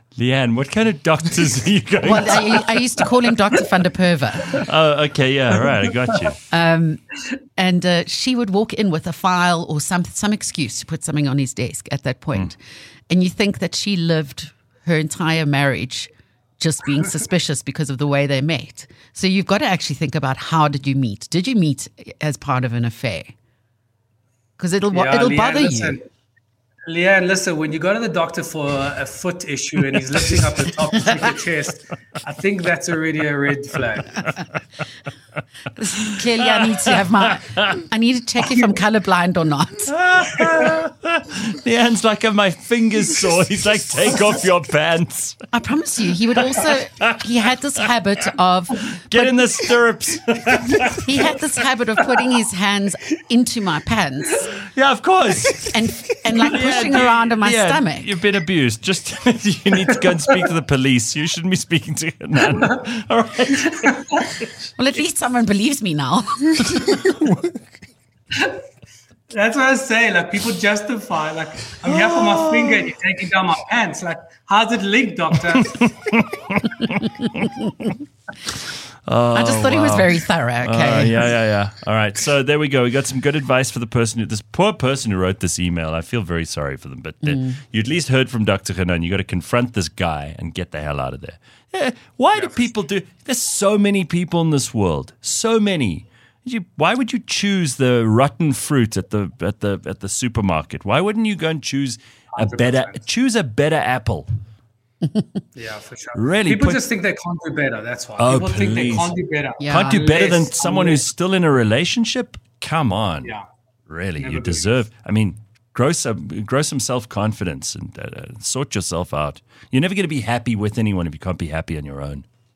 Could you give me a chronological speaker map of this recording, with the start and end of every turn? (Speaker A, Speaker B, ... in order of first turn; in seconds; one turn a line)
Speaker A: 0.2-3.2
Speaker B: 2.0-4.4
Speaker A: 4.4-6.5
Speaker B: 6.5-7.0
Speaker B: 7.6-12.5
Speaker B: 13.1-16.1
Speaker B: 16.6-23.3
Speaker B: 24.6-24.8
Speaker C: 24.9-26.0
Speaker C: 26.9-34.2
Speaker B: 35.9-39.8
Speaker A: 36.0-37.6
Speaker A: 39.9-45.4
Speaker B: 45.5-49.2
Speaker A: 46.4-47.9
Speaker A: 48.7-51.4
Speaker B: 51.0-54.3
Speaker A: 52.0-52.2
Speaker A: 54.6-64.5
Speaker B: 55.7-58.1
Speaker B: 64.8-66.7
Speaker C: 69.3-75.9
Speaker A: 71.8-72.9
Speaker A: 75.8-77.9
Speaker A: 78.5-104.3
Speaker B: 79.3-81.2
Speaker C: 92.3-92.7
Speaker C: 102.3-103.0
Speaker C: 105.5-111.0
Speaker A: 106.2-106.8
Speaker A: 108.2-109.1
Speaker B: 109.6-110.0
Speaker A: 109.7-113.3
Speaker A: 113.9-122.3
Speaker C: 114.2-114.7